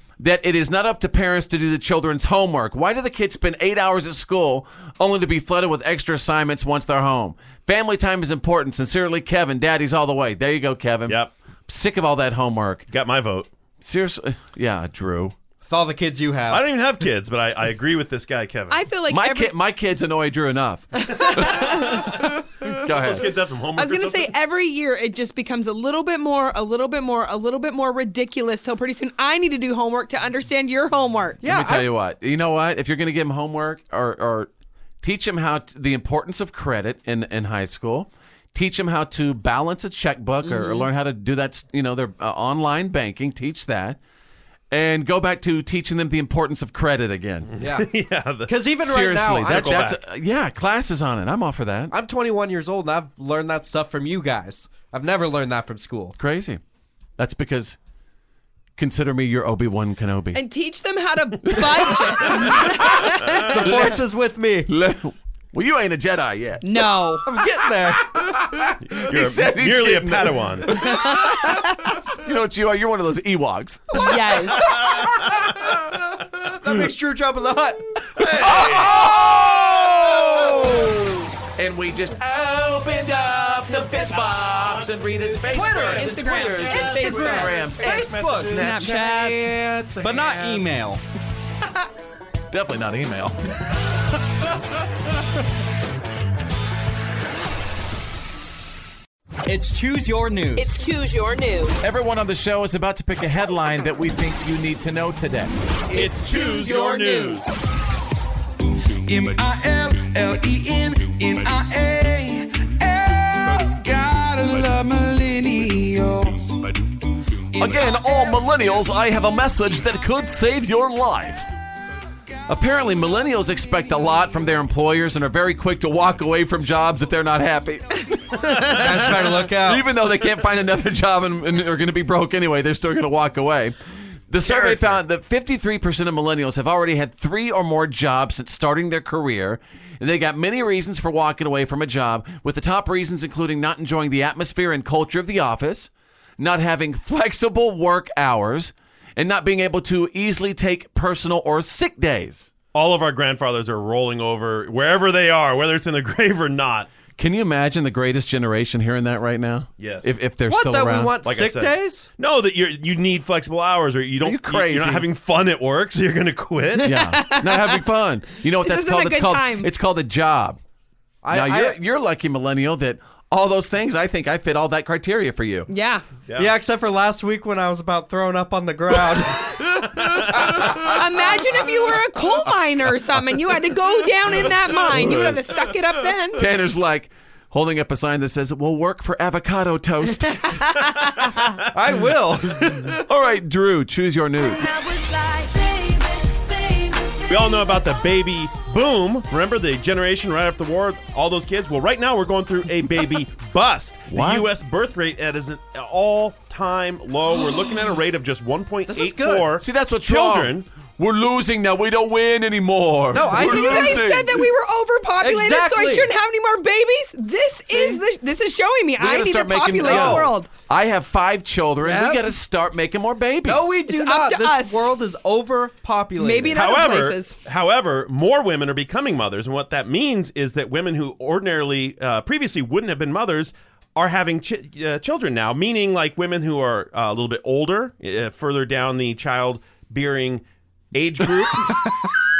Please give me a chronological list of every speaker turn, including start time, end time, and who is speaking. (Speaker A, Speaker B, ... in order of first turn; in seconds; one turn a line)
Speaker A: 0.2-12.8
Speaker B: 11.1-11.3
Speaker B: 12.9-13.5
Speaker A: 13.8-15.3
Speaker C: 15.6-16.6
Speaker B: 16.5-18.8
Speaker D: 18.7-19.5
Speaker A: 19.1-21.8
Speaker D: 21.1-22.0
Speaker B: 21.6-22.0
Speaker A: 22.7-23.3
Speaker B: 22.8-24.3
Speaker D: 23.8-31.4
Speaker C: 31.4-31.9
Speaker A: 31.4-34.5
Speaker A: 35.0-44.0
Speaker D: 40.4-40.9
Speaker A: 44.7-47.5
Speaker B: 47.5-48.7
Speaker C: 47.6-47.9
Speaker C: 48.5-49.8
Speaker A: 48.8-51.9
Speaker B: 49.3-50.0
Speaker C: 51.9-56.1
Speaker A: 56.2-56.6
Speaker A: 57.2-57.8
Speaker A: 58.8-60.4
Speaker D: 60.3-63.4
Speaker A: 61.4-64.0
Speaker C: 63.5-64.7
Speaker A: 64.7-66.9
Speaker D: 66.6-67.2
Speaker C: 67.2-68.4
Speaker A: 68.2-75.7
Speaker B: 68.9-70.8
Speaker D: 70.8-71.6
Speaker D: 74.0-74.9
Speaker C: 76.4-78.8
Speaker A: 78.2-90.9
Speaker B: 78.2-78.9
Speaker C: 85.5-88.8
Speaker D: 85.6-89.6
Speaker C: 90.0-91.0
Speaker A: 92.5-93.3
Speaker C: 99.6-100.6
Speaker E: 100.5-101.8
Speaker A: 101.8-105.5
Speaker B: 105.9-107.5
Speaker D: 106.0-107.3
Speaker F: 109.0-116.7
Speaker A: 117.5-121.5
Speaker A: 122.5-133.7
Speaker C: 128.7-129.8
Speaker A: 134.3-152.5
Speaker B: 134.4-135.0
Speaker B: 152.7-156.9
Speaker A: 157.2-161.2
Speaker B: 159.8-160.2
Speaker C: 160.5-162.1
Speaker B: 161.2-167.0
Speaker A: 164.2-165.1
Speaker D: 166.8-167.8
Speaker A: 166.8-170.6
Speaker D: 168.6-169.7
Speaker C: 171.2-171.8
Speaker A: 171.3-175.7
Speaker D: 175.7-176.0
Speaker B: 176.3-176.5
Speaker C: 176.3-179.7
Speaker A: 180.5-180.9
Speaker D: 180.9-186.4
Speaker A: 184.9-185.4
Speaker A: 186.3-190.8
Speaker D: 190.3-191.3
Speaker C: 191.7-192.9
Speaker A: 193.0-194.7
Speaker E: 194.6-195.5
Speaker B: 197.3-210.7
Speaker A: 204.1-204.5
Speaker C: 208.9-209.5
Speaker A: 209.6-214.5
Speaker C: 213.1-214.1
Speaker D: 213.3-220.5
Speaker C: 215.2-216.1
Speaker A: 219.0-223.7
Speaker C: 219.8-220.3
Speaker D: 221.8-222.2
Speaker C: 223.4-226.8
Speaker D: 223.9-224.9
Speaker D: 226.2-227.4
Speaker B: 226.5-241.9